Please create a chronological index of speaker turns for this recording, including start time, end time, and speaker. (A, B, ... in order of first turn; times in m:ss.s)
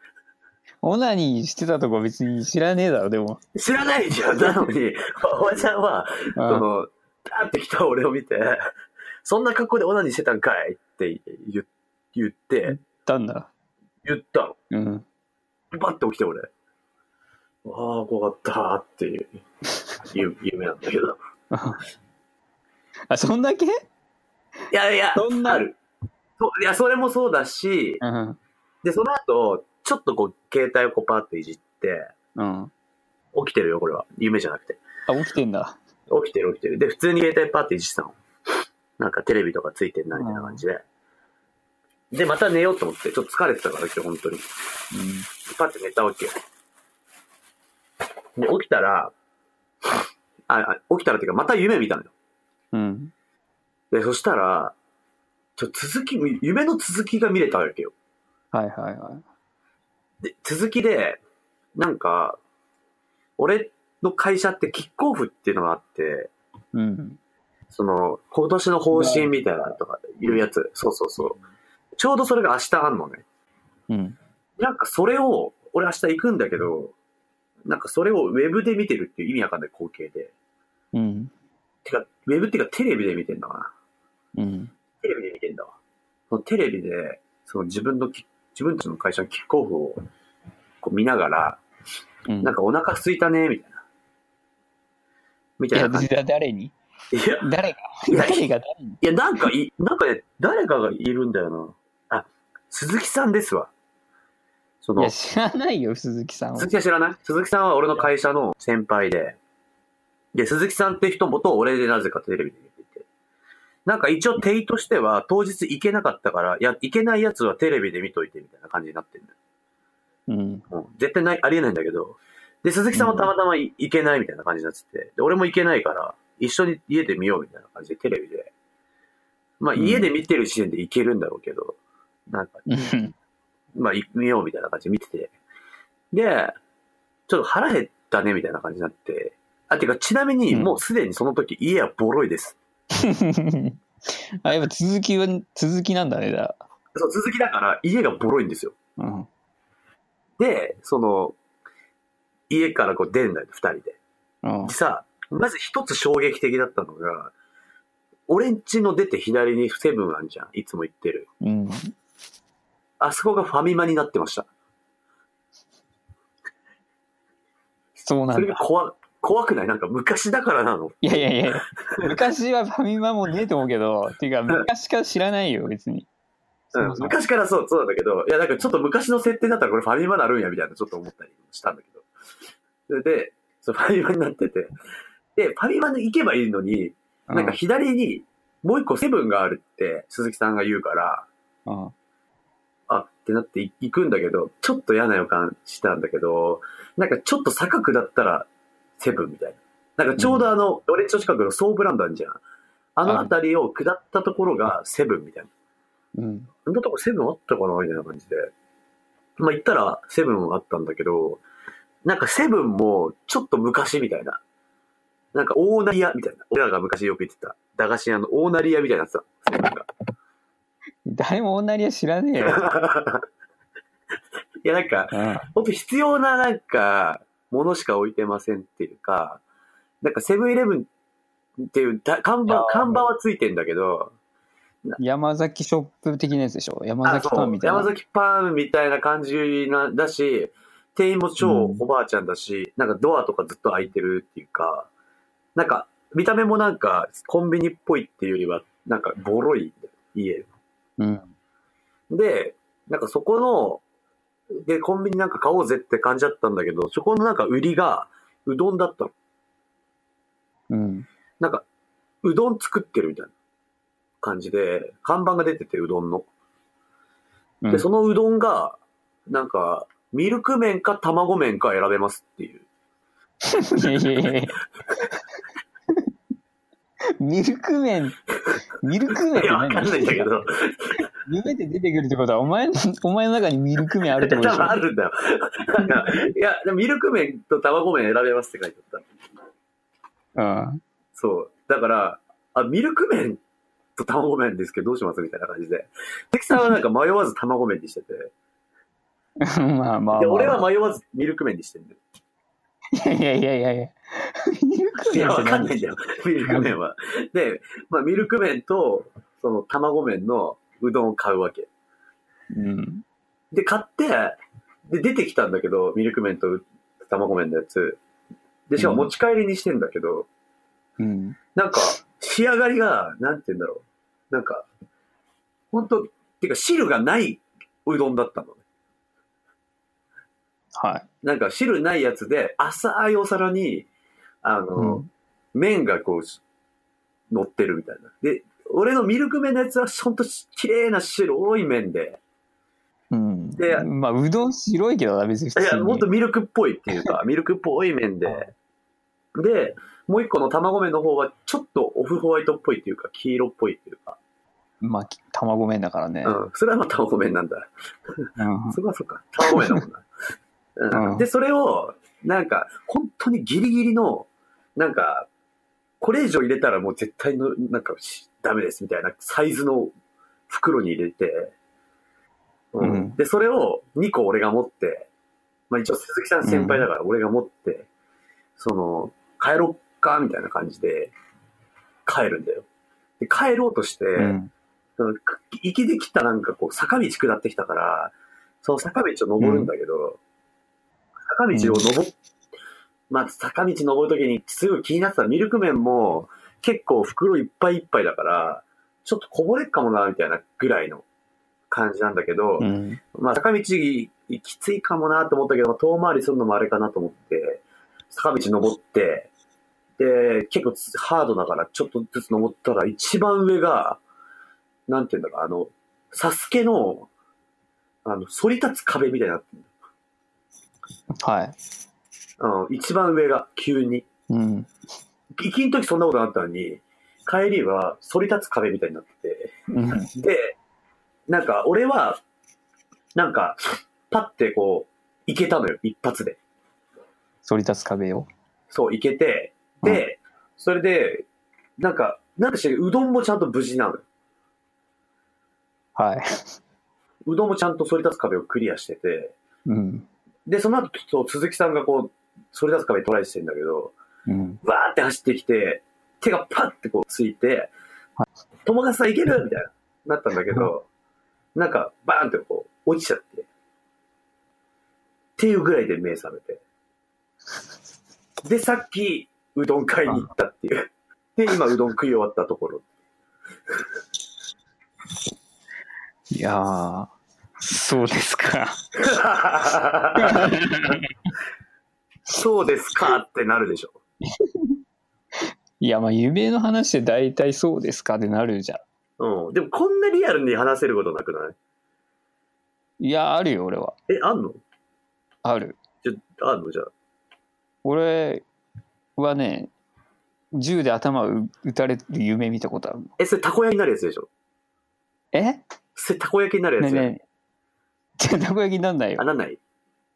0:00.8-0:03.4 A
0:03.6-0:08.6 B
0:06.4-0:06.6 A
0:09.2-0:12.8 B
0:12.7-0:13.5 A
0:14.0-0:14.6 B
0:14.7-0:15.0 A
0:15.7-0:16.5 B
0:17.6-0:19.4 B
0:20.1-0:21.2 B
0:21.5-0:21.8 A
0:23.1-0:23.8 A
0:24.7-0:25.8 B
0:25.2-0:25.6 A
0:26.4-0:28.0 B
0:28.0-0:28.4 A
0:28.8-0:32.1 B
0:32.4-0:32.7 A
0:33.3-0:34.8 B
0:35.1-0:35.8 A
0:36.1-0:38.2 B
0:39.0-0:40.8 B
0:40.1-0:40.6 A
0:42.1-0:44.4 B
0:44.9-0:45.3 A
0:45.4-0:46.4 B
0:48.4-0:49.1 B
0:50.5-0:52.1 B
0:52.7-0:53.1 A
0:53.9-0:54.7 B
0:55.6-0:57.9 B
0:58.5-0:59.2 A
1:00.2-1:01.2 B
1:01.8-1:02.4 B
1:03.4-1:06.3 B
1:06.7-1:07.2 A
1:07.7-1:11.4 B
1:08.9-1:09.3 A
1:12.0-1:13.2 B
1:13.9-1:14.2 A
1:14.6-1:16.9 B
1:17.6-1:20.3 B
1:20.9-1:21.3 A
1:21.8-1:23.7 B
1:24.4-1:24.7 A
1:25.0-1:25.7 B
1:26.3-1:30.0 B
1:30.8-1:31.6 B
1:32.3-1:32.5 A
1:32.4-1:33.8 B
1:35.6-1:36.1 B
1:35.7-1:36.7 A
1:37.1-1:37.5 B
1:37.4-1:39.4 A
1:38.1-1:38.5 B
1:39.0-1:43.7 B
1:44.8-1:45.1 B
1:45.0-1:46.7 A
1:46.6-1:49.4 B
1:50.3-1:53.0 B
1:53.8-1:59.3 B
2:00.3-2:00.6 A
2:00.7-2:08.5 B
2:02.9-2:03.3 A
2:09.6-2:11.8 B
2:09.8-2:10.1 A
2:12.3-2:12.6 B
2:12.7-2:13.1 A
2:13.8-2:15.3 B
2:16.1-2:16.6 B
2:17.3-2:22.6 B
2:20.5-2:20.8 A
2:22.9-2:23.8 A
2:24.4-2:26.6 A
2:26.9-2:28.7 B
2:29.0-2:29.3 A
2:30.4-2:31.4 B
2:32.5-2:34.0 B
2:34.4-2:34.7 A
2:34.6-2:37.3 B
2:38.3-2:41.3 B
2:41.4-2:41.9 A
2:43.0-2:44.5 B
2:48.0-2:48.6 A
2:48.3-2:51.0 B
2:51.0-2:56.1 A
2:51.7-2:52.2 B
2:56.7-2:57.2 A
2:56.7-3:02.1 B
3:02.9-3:04.7 B
3:05.4-3:11.3 B
3:07.3-3:07.6 A
3:11.6-3:11.9 A
3:12.9-3:18.5 B
3:19.0-3:22.4 B
3:20.2-3:20.5 A
3:23.0-3:25.5 B
3:23.0-3:23.3 A
3:26.2-3:26.5 A
3:26.6-3:28.5 B
3:29.4-3:31.4 B
3:32.0-3:34.4 B
3:35.3-3:39.9 B
3:41.0-3:42.6 A
3:42.4-3:43.2 B
3:44.6-3:49.4 B
3:45.1-3:45.5 A
3:50.0-3:50.9 B
3:51.6-3:54.1 B
3:52.5-3:53.1 A
3:55.0-3:57.9 A
3:57.0-4:04.9 B
4:01.4-4:01.8 A
4:05.5-4:10.5 B
4:11.0-4:11.3 A
4:12.1-4:13.8 B
4:14.5-4:19.1 B
4:20.7-4:21.1 A
4:21.4-4:21.6 B
4:22.2-4:23.3 B
4:24.2-4:26.3 B
4:27.7-4:32.6 B
4:33.4-4:34.6 A
4:33.8-4:34.3 B
4:37.2-4:38.2 A
4:38.8-4:40.3 A
4:39.3-4:41.0 B
4:41.2-4:44.8 A
4:44.2-4:49.1 B
4:45.8-4:46.2 A
4:50.4-4:50.8 A
4:51.2-4:53.4 B
4:54.0-4:58.3 B
4:59.4-5:00.6 A
5:00.1-5:02.0 B
5:02.9-5:05.7 A
5:05.1-5:11.7 B
5:06.4-5:06.8 A
5:12.5-5:13.0 A
5:13.5-5:18.0 B
5:18.7-5:20.3 B
5:18.8-5:19.1 A
5:21.0-5:21.4 A
5:21.5-5:24.6 B
5:25.7-5:28.6 B
5:30.8-5:31.0 A
5:31.2-5:33.9 B
5:34.4-5:36.4 B
5:34.8-5:35.1 A
5:37.3-5:42.2 B
5:43.1-5:46.1 A
5:43.6-5:43.9 B
5:45.6-5:48.5 B
5:49.3-5:54.2 B
5:54.8-5:56.4 A
5:56.2-6:00.0 B
5:58.4-5:58.8 A
5:59.4-5:59.8 A
6:00.8-6:05.3 B
6:00.9-6:01.2 A
6:06.0-6:09.9 B
6:10.5-6:11.5 B
6:12.7-6:15.1 B
6:12.8-6:13.2 A
6:15.7-6:17.9 B
6:16.4-6:16.8 A
6:18.6-6:21.1 B
6:22.0-6:22.6 B
6:23.2-6:24.4 B
6:24.2-6:24.5 A
6:25.0-6:30.2 B
6:29.4-6:29.7 A
6:31.3-6:32.1 B
6:31.5-6:31.8 A
6:33.1-6:41.0 B
6:41.7-6:49.3 B
6:42.6-6:43.0 A
6:50.0-6:54.0 B
6:54.9-6:57.1 B
6:58.0-6:59.7 B
7:01.2-7:01.5 A
7:02.4-7:04.0 B
7:04.3-7:04.7 A
7:05.4-7:09.5 B
7:09.7-7:10.1 A
7:10.1-7:10.6 B
7:11.3-7:12.2 B
7:13.1-7:16.4 B
7:17.4-7:18.3 A
7:18.7-7:21.2 B
7:21.8-7:24.0 B
7:26.0-7:26.4 A
7:27.2-7:29.3 B
7:29.7-7:30.1 A
7:30.5-7:33.9 B
7:34.3-7:34.6 A
7:34.6-7:37.7 B
7:38.6-7:40.9 B
7:41.5-7:43.5 B
7:45.4-7:46.6 B
7:48.4-7:52.8 B
7:56.3-7:58.8 A
7:59.0-8:01.0 B
8:00.2-8:01.1 A
8:02.3-8:04.0 B
8:04.3-8:04.7 A
8:05.8-8:08.8 A
8:09.2-8:11.6 B
8:13.0-8:14.0 A
8:14.1-8:14.6 B
8:15.4-8:15.8 A
8:16.0-8:16.9 B
8:17.8-8:18.4 A
8:19.2-8:19.7 A
8:20.5-8:23.1 A
8:23.2-8:24.3 B
8:25.3-8:25.6 A
8:26.0-8:27.1 B
8:26.8-8:27.2 A
8:28.2-8:29.2 A
8:29.2-8:29.6 B